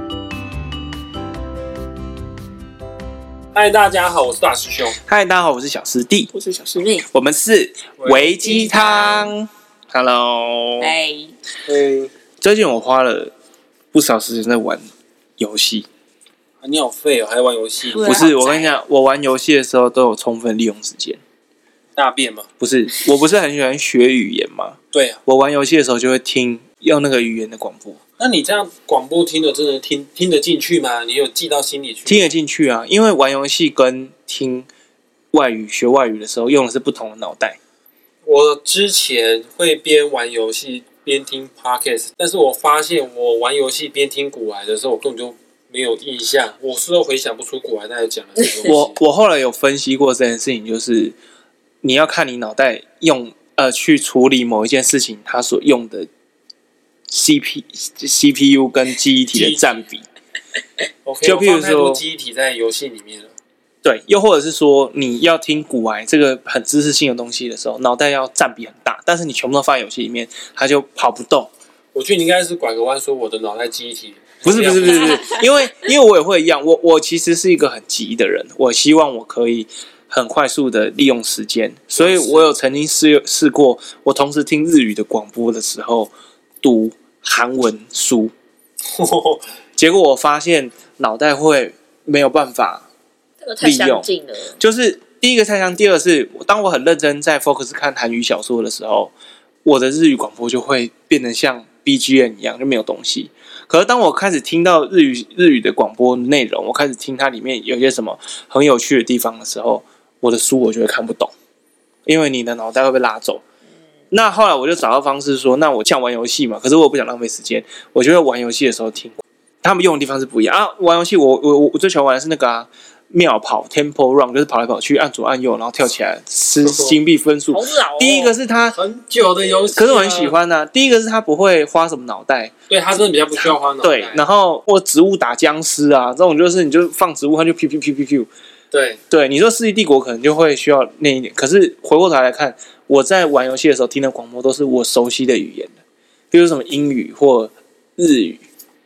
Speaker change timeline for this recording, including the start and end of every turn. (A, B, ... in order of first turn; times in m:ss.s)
0:03.5-0:05.0 A
0:05.0-0:06.3 B
0:06.3-0:07.1 C
0:07.1-0:10.9 B
0:08.0-0:08.3 A
0:08.4-0:09.3 C
0:10.8-0:11.3 C
0:11.6-0:12.1 A
0:12.4-0:13.3 B
0:13.9-0:14.9 B
0:15.4-0:15.8 B
0:16.6-0:18.3 A
0:17.8-0:18.7 C
0:18.0-0:21.2 B
0:22.0-0:22.5 A
0:22.6-0:28.0 B
0:24.9-0:25.2 A
0:28.2-0:32.3 A
0:32.0-0:34.7 B
0:35.3-0:37.6 B
0:38.2-0:49.0 A
0:48.4-0:48.7 C
0:48.6-0:51.2 B
0:51.8-0:56.1 B
0:57.1-1:00.0 B
0:59.3-0:59.7 A
1:01.0-1:03.3 A
1:01.2-1:02.0 B
1:03.8-1:11.5 B
1:11.9-1:15.3 A
1:14.4-1:26.1 B
1:22.0-1:22.5 A
1:26.6-1:28.3 B
1:28.9-1:29.4 A
1:29.8-1:32.8 B
1:33.4-1:34.6 C
1:33.6-1:34.1 B
1:34.6-1:39.1 B
1:39.6-1:51.3 B
1:52.0-1:53.4 B
1:54.1-2:08.8 B
2:06.6-2:07.0 A
2:07.5-2:08.3 C
2:08.7-2:10.3 A
2:09.7-2:12.5 B
2:12.7-2:14.2 A
2:13.4-2:18.3 B
2:18.7-2:19.0 A
2:19.1-2:25.7 B
2:26.3-2:28.4 B